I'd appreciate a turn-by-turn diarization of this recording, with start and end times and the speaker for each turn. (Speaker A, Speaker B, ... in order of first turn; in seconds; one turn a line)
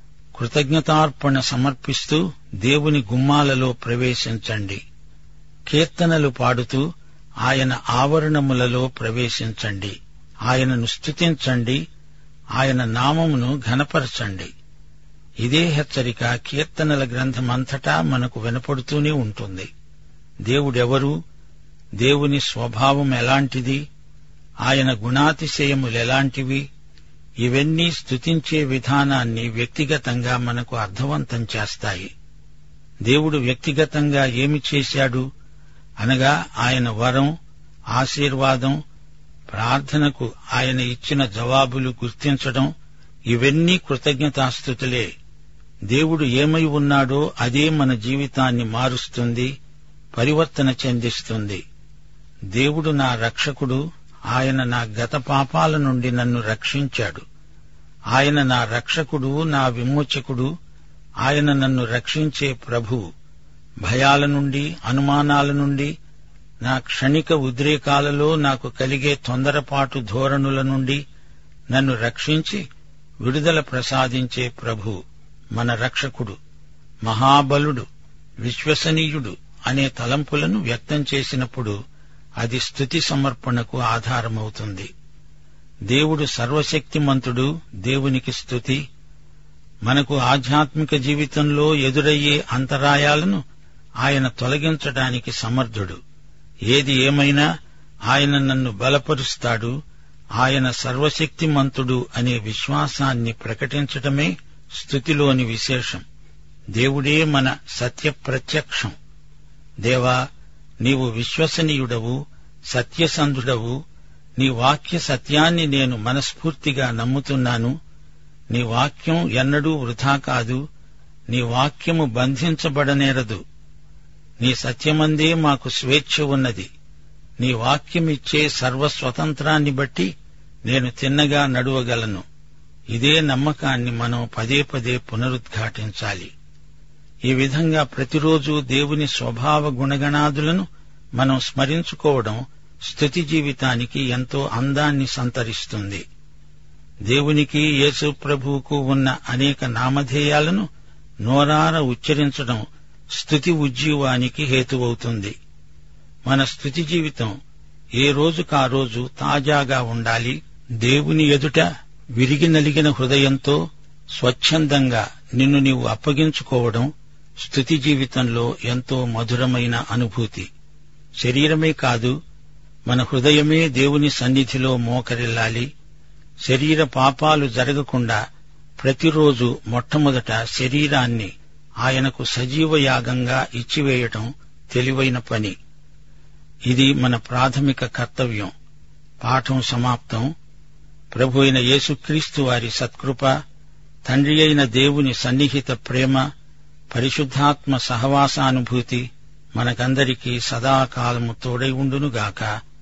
Speaker A: 0.3-4.8
Speaker A: 5.7-6.8
Speaker A: 7.4-9.9
Speaker A: 10.5-11.8
Speaker A: 12.6-14.5
Speaker A: 15.4-19.7
Speaker A: 20.4-21.1
Speaker A: 22.0-23.8
Speaker A: 24.7-26.6
Speaker A: 27.4-32.1
Speaker A: 33.0-35.2
Speaker A: 36.0-37.3
Speaker A: 37.9-38.8
Speaker A: 39.5-42.7
Speaker A: 43.3-45.1
Speaker A: 45.9-49.5
Speaker A: 50.1-51.6
Speaker A: 52.5-57.2
Speaker A: 58.1-60.5
Speaker A: 61.2-63.0
Speaker A: 63.8-65.9
Speaker A: 66.6-71.0
Speaker A: 71.7-72.6
Speaker A: 73.2-75.0
Speaker A: 75.5-76.4
Speaker A: 77.0-77.8
Speaker A: 78.4-81.8
Speaker A: 82.4-84.9
Speaker A: 85.9-88.8
Speaker A: 89.8-93.4
Speaker A: 94.0-96.0
Speaker A: 96.7-97.5
Speaker A: 98.1-99.8
Speaker A: 100.4-106.0
Speaker A: 106.8-108.9
Speaker A: 109.8-110.2
Speaker A: 110.8-112.2
Speaker A: 112.7-113.8
Speaker A: 114.4-117.8
Speaker A: 118.5-120.6
Speaker A: 121.3-123.4
Speaker A: 124.4-126.7
Speaker A: 127.4-130.1
Speaker A: 130.6-132.2
Speaker A: 132.9-136.3
Speaker A: 137.3-146.0
Speaker A: 147.1-150.7
Speaker A: 151.2-155.3
Speaker A: 156.2-157.3
Speaker A: 157.9-163.6
Speaker A: 164.1-166.9
Speaker A: 167.4-170.5
Speaker A: 171.2-172.2
Speaker A: 172.9-175.7
Speaker A: 176.4-178.2
Speaker A: 178.8-185.6
Speaker A: 186.7-188.5
Speaker A: 189.2-190.3
Speaker A: 191.1-193.4
Speaker A: 194.0-196.3
Speaker A: 196.9-202.6